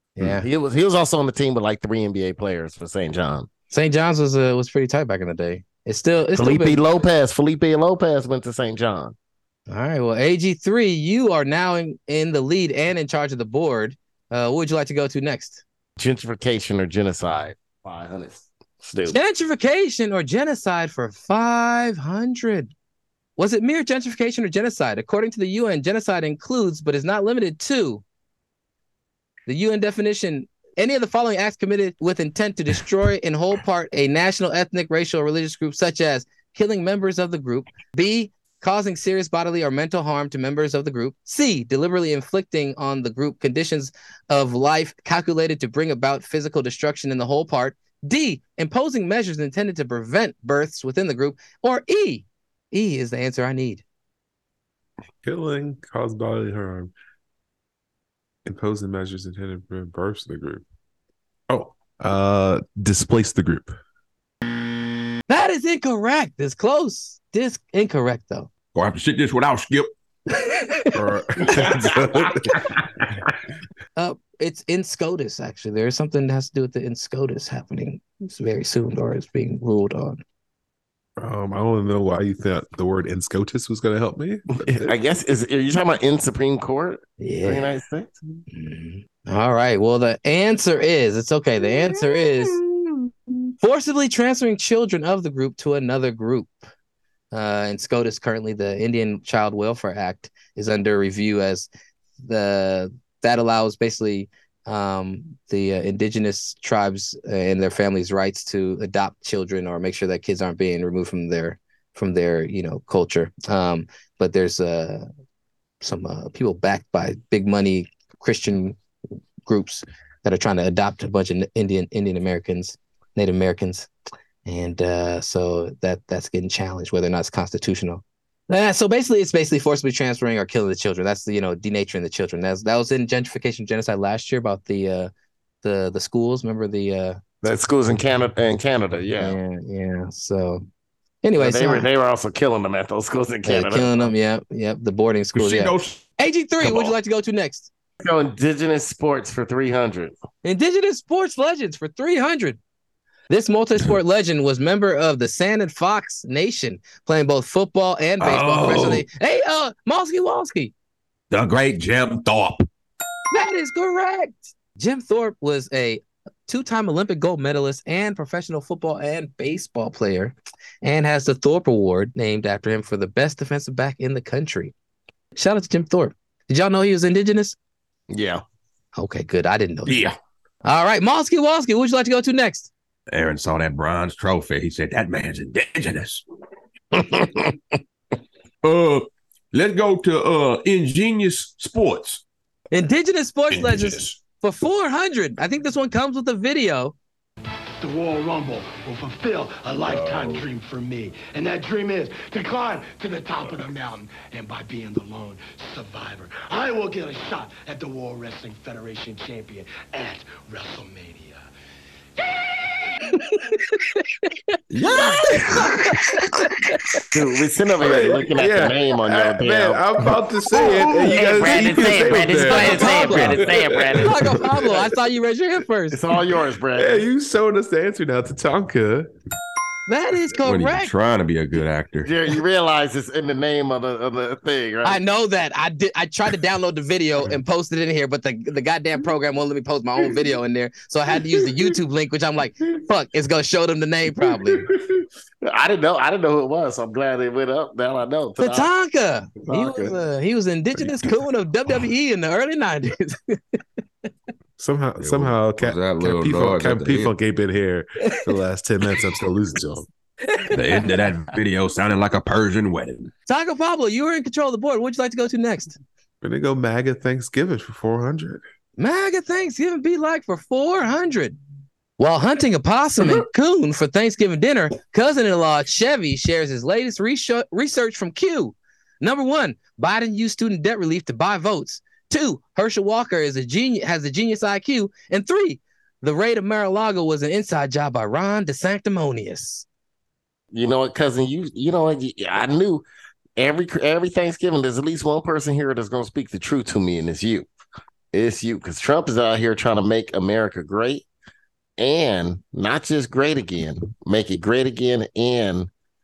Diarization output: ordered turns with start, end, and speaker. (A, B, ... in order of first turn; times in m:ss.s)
0:00.2-0:00.4 A
0:00.3-0:03.5 B
0:03.7-0:06.8 A
0:06.3-0:09.2 B
0:09.7-0:15.6 A
0:16.0-0:19.2 B
0:19.1-0:22.7 A
0:23.4-0:28.0 A
0:29.5-0:53.8 A
0:55.2-0:56.9 C
0:58.4-1:00.6 C
1:01.5-1:03.8 C
1:05.3-1:08.5 A
1:08.8-1:09.9 D
1:10.3-1:10.9 A
1:10.9-1:12.6 C
1:14.0-1:20.2 A
1:21.2-1:24.9 C
1:24.6-1:28.2 B
1:27.2-1:27.7 A
1:28.5-1:32.6 A
1:33.6-1:36.6 A
1:37.3-1:41.7 A
1:42.2-1:55.1 A
1:55.8-1:58.8 A
1:59.5-2:03.9 A
2:04.4-2:15.1 A
2:15.6-2:17.2 A
2:17.4-2:19.4 B
2:19.2-2:20.7 A
2:21.2-2:21.9 A
2:21.4-2:24.1 B
2:23.4-2:27.7 A
2:25.4-2:26.1 D
2:26.6-2:27.0 D
2:28.0-2:30.2 B
2:30.4-2:32.6 A
2:33.3-2:40.7 A
2:38.2-2:39.0 D
2:41.3-2:42.7 D
2:43.3-2:54.7 A
2:55.4-2:57.6 A
2:58.1-2:58.4 B
2:59.0-3:00.1 A
2:59.9-3:00.2 D
3:00.6-3:02.7 A
3:03.1-3:06.2 D
3:06.9-3:07.8 B
3:08.6-3:12.2 D
3:12.7-3:17.0 A
3:13.5-3:14.2 D
3:17.8-3:31.5 E
3:19.8-3:20.5 D
3:32.2-3:32.6 E
3:33.1-3:37.0 A
3:34.9-3:35.6 D
3:37.1-3:44.2 B
3:37.8-3:44.5 C
3:42.4-3:43.5 A
3:44.0-3:46.0 A
3:45.9-3:47.0 B
3:46.8-3:49.1 C
3:49.9-3:50.9 A
3:50.4-3:52.1 D
3:52.0-3:55.0 B
3:54.8-4:04.7 A
4:05.4-4:08.7 B
4:08.4-4:13.6 A
4:14.6-4:19.9 C
4:15.0-4:17.1 D
4:20.3-4:20.6 A
4:20.5-4:23.1 D
4:23.3-4:25.8 A
4:26.2-4:28.4 C
4:28.8-4:31.4 A
4:32.0-4:49.7 A
4:50.5-4:52.9 B
4:53.4-4:57.5 B
4:58.1-5:01.0 B
5:01.8-5:05.7 B